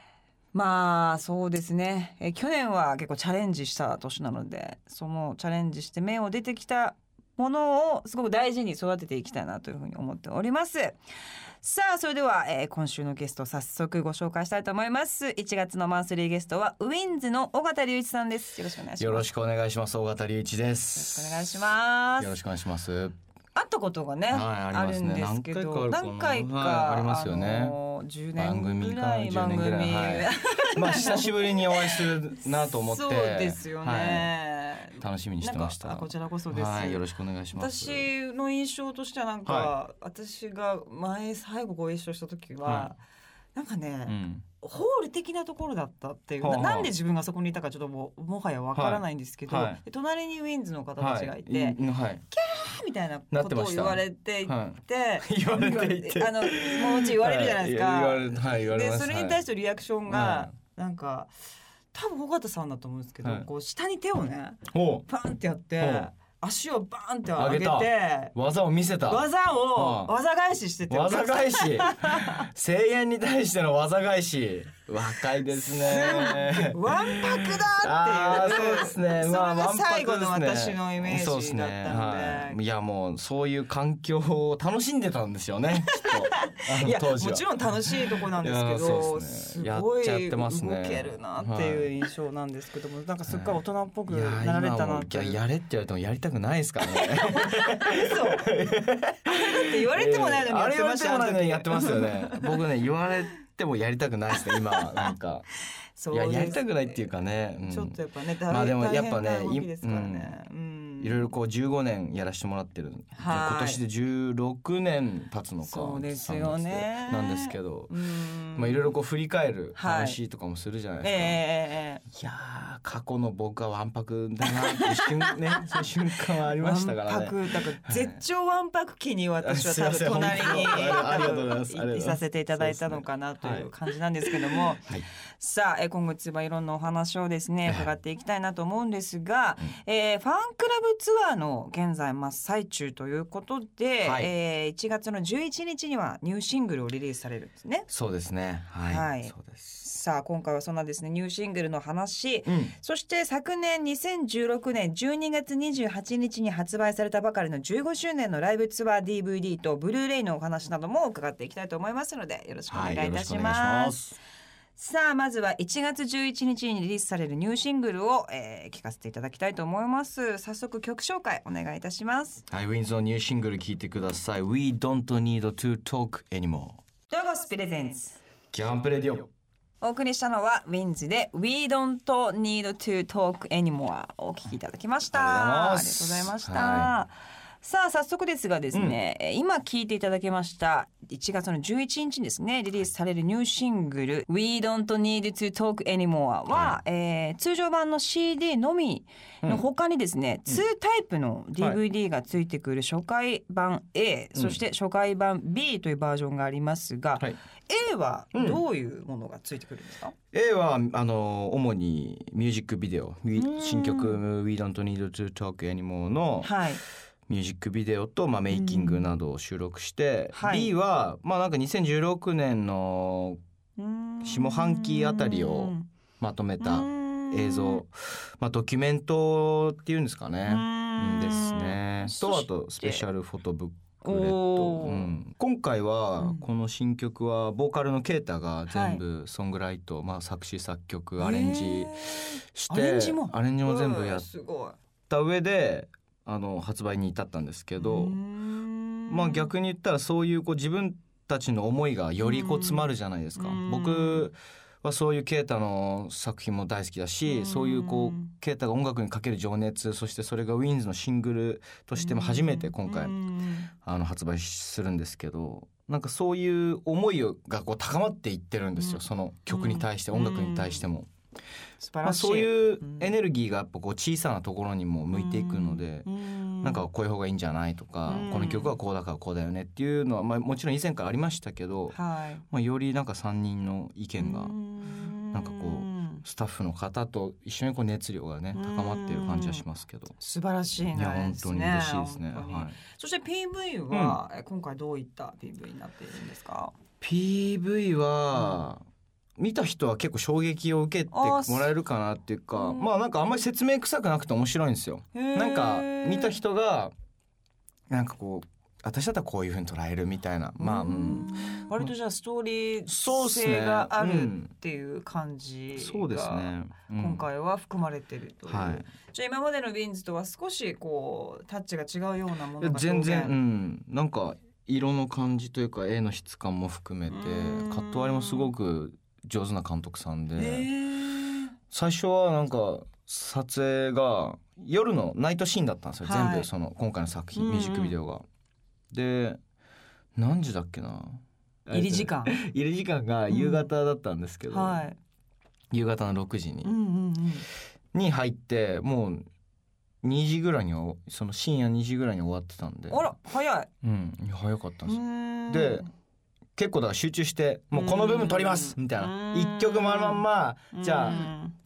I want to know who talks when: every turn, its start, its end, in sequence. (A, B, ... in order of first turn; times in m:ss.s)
0:00.5-0:11.0 A
0:11.6-0:19.3 A
0:19.0-0:21.6 B
0:21.0-0:22.4 A
0:22.2-0:23.2 B
0:23.6-0:32.1 A
0:24.3-0:27.8 B
0:28.4-0:34.3 B
0:32.8-0:37.0 A
0:35.0-0:38.1 B
0:37.5-0:43.0 A
0:39.5-0:39.7 B
0:42.6-0:42.9 B
0:43.6-0:51.8 A
0:44.1-0:44.4 B
0:46.4-0:46.9 B
0:48.7-0:49.8 B
0:51.0-0:52.2 B
0:52.3-1:01.3 A
0:53.3-0:59.4 B
1:00.1-1:00.6 B
1:01.9-1:08.3 A
1:04.7-1:05.1 B
1:05.8-1:06.1 B
1:07.4-1:10.1 B
1:09.0-1:12.3 A
1:10.9-1:31.9 B
1:15.8-1:22.6 A
1:26.0-1:35.4 A
1:33.3-1:45.5 B
1:37.0-1:38.5 A
1:39.3-1:42.6 A
1:44.5-1:45.2 A
1:46.0-1:47.1 A
1:46.1-1:50.4 B
1:47.6-1:51.3 A
1:51.0-1:57.9 B
1:53.1-1:53.8 A
1:55.6-1:58.9 A
1:58.6-2:01.4 B
1:59.8-2:00.2 A
2:01.0-2:02.0 A
2:02.1-2:08.2 B
2:04.6-2:05.3 A
2:06.5-2:27.9 A
2:09.4-2:13.7 B
2:14.2-2:15.1 B
2:24.0-2:24.3 B
2:27.9-2:29.8 B
2:28.8-2:44.0 A
2:32.5-2:32.8 B
2:42.7-2:44.2 B
2:44.8-2:52.4 A
2:52.5-2:56.8 B
2:57.1-2:58.2 A
2:58.5-2:59.3 B
2:59.8-3:30.2 A
3:05.1-3:06.9 B
3:08.7-3:09.0 B
3:16.5-3:16.8 B
3:24.3-3:24.6 B
3:28.3-3:28.6 B
3:30.3-3:36.5 B
3:33.4-3:34.2 A
3:36.4-3:36.8 A
3:37.3-3:43.4 B
3:38.5-3:39.1 A
3:40.3-3:40.7 A
3:43.8-3:45.9 A
3:44.2-4:04.3 B
3:46.6-3:47.8 A
3:50.5-3:53.0 A
3:54.0-3:55.2 A
3:56.2-3:56.5 A
3:58.7-3:59.0 A
4:01.2-4:04.8 A
4:05.1-4:08.2 B
4:07.8-4:09.5 A
4:09.1-4:23.2 B
4:12.2-4:14.3 A
4:17.3-4:18.3 A
4:22.0-4:23.7 A
4:23.8-4:31.1 B
4:28.8-4:30.8 A
4:31.8-4:33.1 A
4:32.0-4:36.1 B
4:35.1-4:36.9 A
4:36.6-4:42.0 B
4:38.1-4:38.8 A
4:41.9-4:42.4 A
4:42.5-4:44.6 B
4:44.2-4:46.2 A
4:45.3-4:50.2 B
4:48.5-4:49.6 A
4:50.2-4:56.7 A
4:50.9-4:52.8 B
4:53.9-4:54.2 B
4:57.0-4:58.8 B
4:58.3-4:58.6 A
4:59.4-5:06.9 B
5:01.1-5:01.7 A
5:02.5-5:02.9 A
5:05.1-5:06.4 A
5:07.9-5:11.9 B
5:10.6-5:23.3 A
5:12.9-5:14.5 B
5:15.8-5:17.2 B
5:18.5-5:18.9 B
5:22.6-5:30.7 B
5:27.1-5:28.5 A
5:30.4-5:31.5 A
5:31.7-5:38.2 B
5:36.0-5:36.5 A
5:37.4-5:38.0 A
5:38.9-5:39.4 B
5:40.2-5:44.8 B
5:41.7-5:42.4 A
5:43.3-5:43.7 A
5:44.5-5:45.0 A
5:45.7-5:46.7 B
5:46.6-5:47.4 A
5:47.9-5:49.3 B
5:50.0-5:53.1 B
5:52.9-5:53.7 A
5:53.8-5:55.9 B
5:54.9-5:55.9 A
5:56.6-6:01.3 B
5:57.7-6:01.6 A